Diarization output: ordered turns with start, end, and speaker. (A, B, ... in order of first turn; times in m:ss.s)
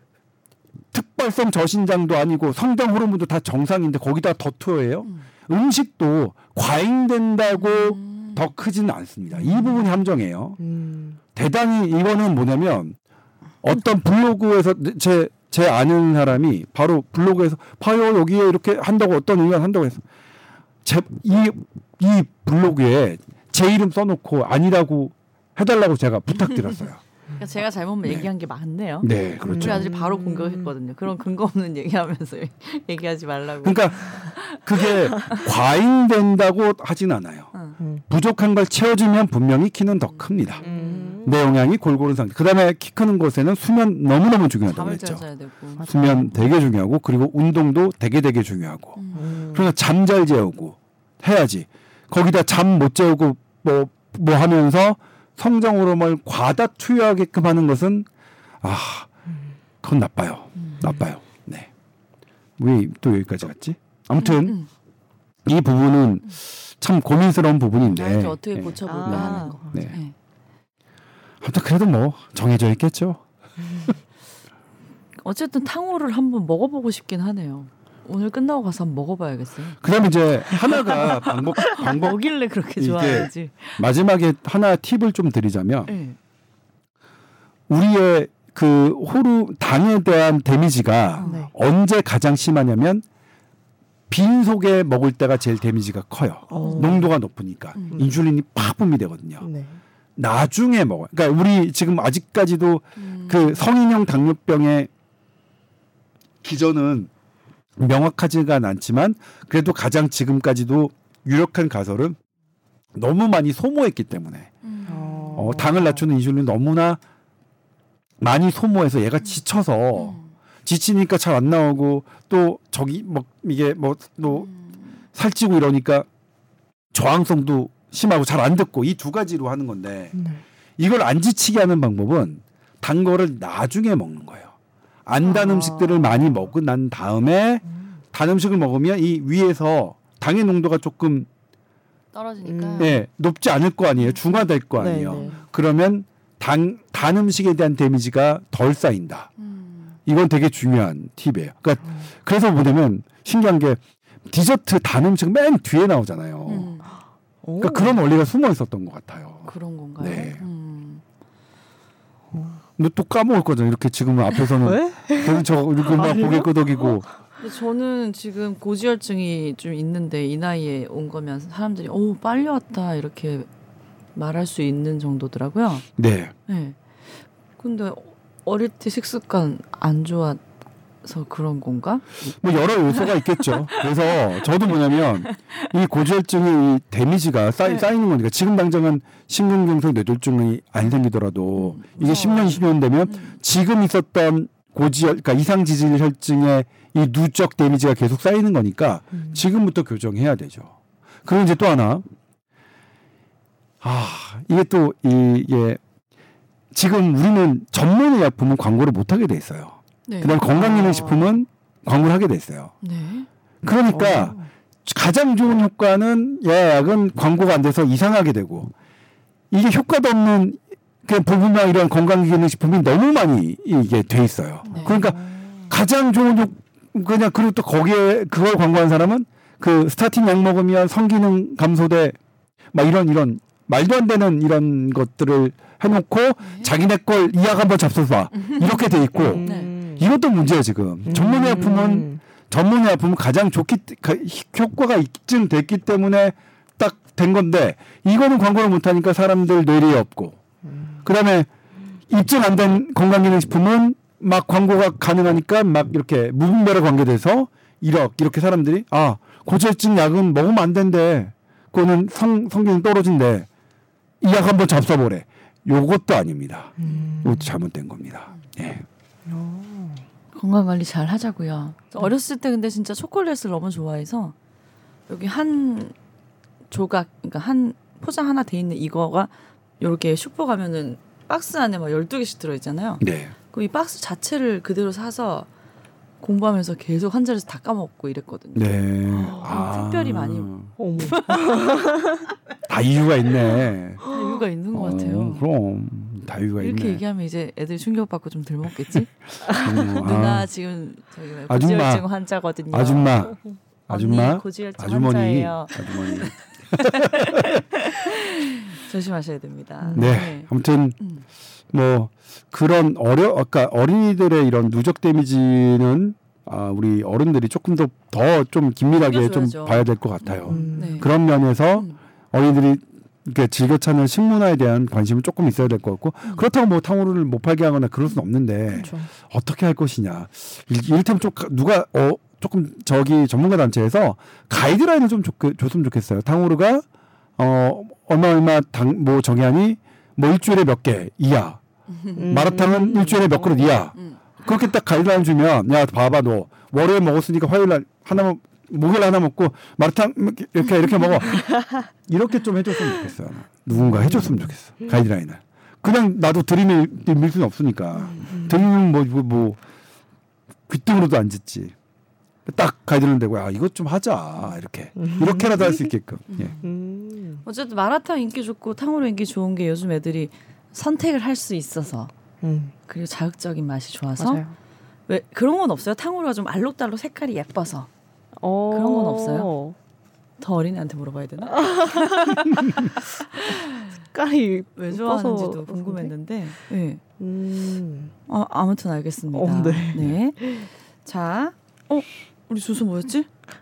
0:00.9-0:10.6 A
0:07.6-0:08.4 B
0:09.4-0:09.8 B
0:10.6-0:11.2 C
0:11.3-0:13.0 A
0:13.6-0:20.0 A
0:20.8-0:27.0 A
0:27.4-0:35.4 B
0:28.0-0:28.3 A
0:29.0-0:29.9 A
0:29.5-0:30.7 C
0:33.6-0:34.0 A
0:34.6-0:37.5 A
0:38.1-0:40.6 A
0:40.0-0:41.2 B
0:40.6-0:41.3 C
0:41.2-0:45.2 A
0:44.7-0:45.8 B
0:45.8-0:46.4 C
0:45.8-0:58.1 A
0:49.0-0:49.4 B
0:49.2-0:49.7 C
0:58.6-0:59.1 A
0:59.8-1:01.7 A
1:02.6-1:04.6 A
1:04.2-1:04.7 B
1:05.4-1:10.0 A
1:07.8-1:10.1 B
1:08.9-1:09.8 C
1:11.4-1:13.2 A
1:15.2-1:19.8 B
1:19.8-1:22.2 A
1:20.5-1:23.8 B
1:22.8-1:25.9 A
1:25.9-1:26.2 B
1:27.7-1:33.0 A
1:31.2-1:31.5 B
1:31.2-1:31.5 C
1:34.1-1:39.5 A
1:36.5-1:37.1 C
1:36.6-1:37.0 B
1:39.4-1:39.8 C
1:40.2-1:44.9 A
1:43.0-1:43.6 B
1:46.4-1:47.1 A
1:47.8-1:52.2 A
1:52.9-1:54.5 A
1:54.6-1:55.5 B
1:54.9-1:56.0 C
1:55.3-1:57.0 A
1:58.2-2:04.5 A
1:59.9-2:00.3 B
2:04.3-2:05.0 B
2:05.1-2:06.1 A
2:06.9-2:10.2 A
2:10.1-2:10.4 C
2:10.8-2:14.5 A
2:15.0-2:21.3 A
2:15.3-2:16.2 C
2:22.1-2:23.0 B
2:22.4-2:23.0 C
2:22.8-2:29.3 A
2:24.7-2:25.4 C
2:25.2-2:25.4 B
2:29.4-2:30.0 B
2:30.0-2:36.7 A
2:36.5-2:36.9 B
2:37.4-2:38.0 C
2:37.6-2:40.4 A
2:39.5-2:41.0 B
2:42.3-2:42.6 C
2:42.8-2:47.0 A
2:44.6-2:47.0 C
2:47.4-2:53.5 B
2:54.1-2:55.8 B
2:56.0-2:56.3 A
2:56.5-2:56.8 B
2:57.6-3:00.4 B
3:01.0-3:02.0 B
3:02.4-3:22.0 A
3:03.0-3:03.8 B
3:11.6-3:13.4 B
3:23.8-3:25.8 A
3:26.7-3:32.7 A
3:30.1-3:30.4 B
3:30.5-3:31.3 C
3:32.8-3:33.3 B
3:33.6-3:38.7 A
3:33.9-3:34.5 C
3:39.5-3:52.2 A
3:44.6-3:45.1 B
3:44.7-3:45.6 C
3:52.7-4:10.4 A
3:56.4-3:56.7 B
3:58.3-3:58.8 B
3:59.1-4:00.0 C
3:59.4-3:59.7 B
4:01.0-4:02.2 C
4:11.0-4:11.5 A
4:12.1-4:23.5 A
4:24.2-4:28.8 A
4:26.8-4:27.6 C
4:26.8-4:27.2 B
4:29.3-4:30.0 C
4:30.3-4:34.3 B
4:35.1-4:35.9 B
4:36.7-4:45.5 B
4:43.0-4:43.3 A
4:46.2-4:52.0 B
4:48.5-4:50.7 A
4:50.8-4:52.2 C
4:52.7-4:54.0 A
4:54.0-4:55.4 B
4:54.7-4:57.0 A
4:56.6-5:03.3 B
4:59.6-5:00.5 A
5:01.5-5:02.0 A
5:02.7-5:07.6 A
5:03.9-5:10.5 B
5:09.9-5:11.0 A
5:11.7-5:36.8 A
5:18.9-5:21.1 B
5:20.4-5:21.1 C
5:37.4-5:41.6 A
5:42.0-5:42.5 B
5:42.2-5:43.4 C
5:42.3-5:59.6 A
5:43.4-5:44.2 B
5:53.7-5:54.9 C
6:00.7-6:01.7 A
6:02.4-6:06.5 A
6:05.0-6:05.9 C
6:06.3-6:06.6 B
6:06.6-6:07.4 C
6:07.4-6:12.1 B
6:12.4-6:12.7 C
6:12.9-6:14.4 B
6:14.2-6:14.5 C
6:15.1-6:17.9 B
6:18.4-6:19.8 C
6:18.7-6:19.5 B
6:20.4-6:23.9 B
6:21.6-6:22.6 C
6:24.1-6:26.1 C
6:24.8-6:27.0 B
6:27.2-6:28.1 C
6:28.3-6:33.3 B
6:29.3-6:30.5 C